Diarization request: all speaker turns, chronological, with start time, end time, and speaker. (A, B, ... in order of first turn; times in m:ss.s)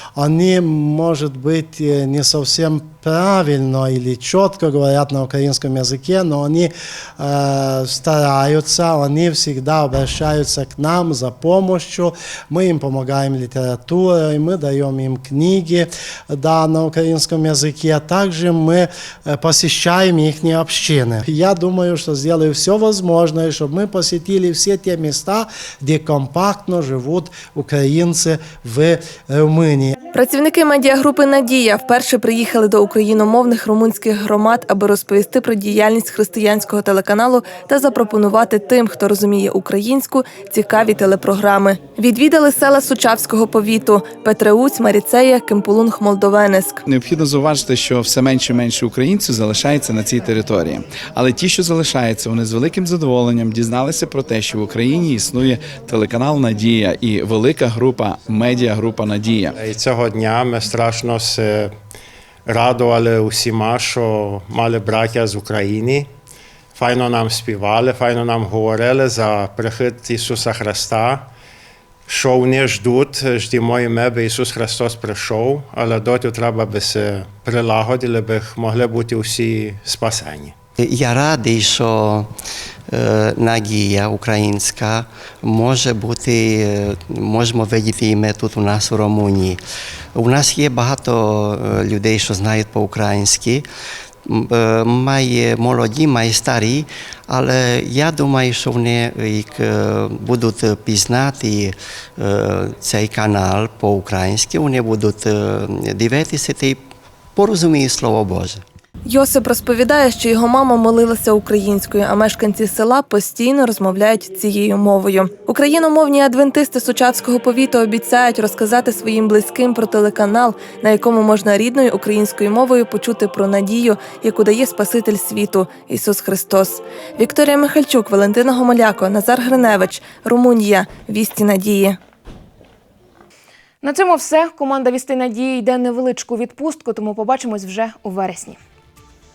0:00.2-0:30.0 A
0:30.1-0:46.8 B
0:46.9-0:59.5 C
0:59.6-1:01.7 D
1:02.5-1:06.1 D
1:06.8-1:11.3 D
1:12.1-1:20.5 D
1:20.8-1:22.3 E
1:22.9-1:29.6 E
1:30.2-1:33.7 E
1:34.3-1:46.8 E
1:47.4-1:48.6 E
1:49.1-2:12.0 B
2:13.8-2:18.6 F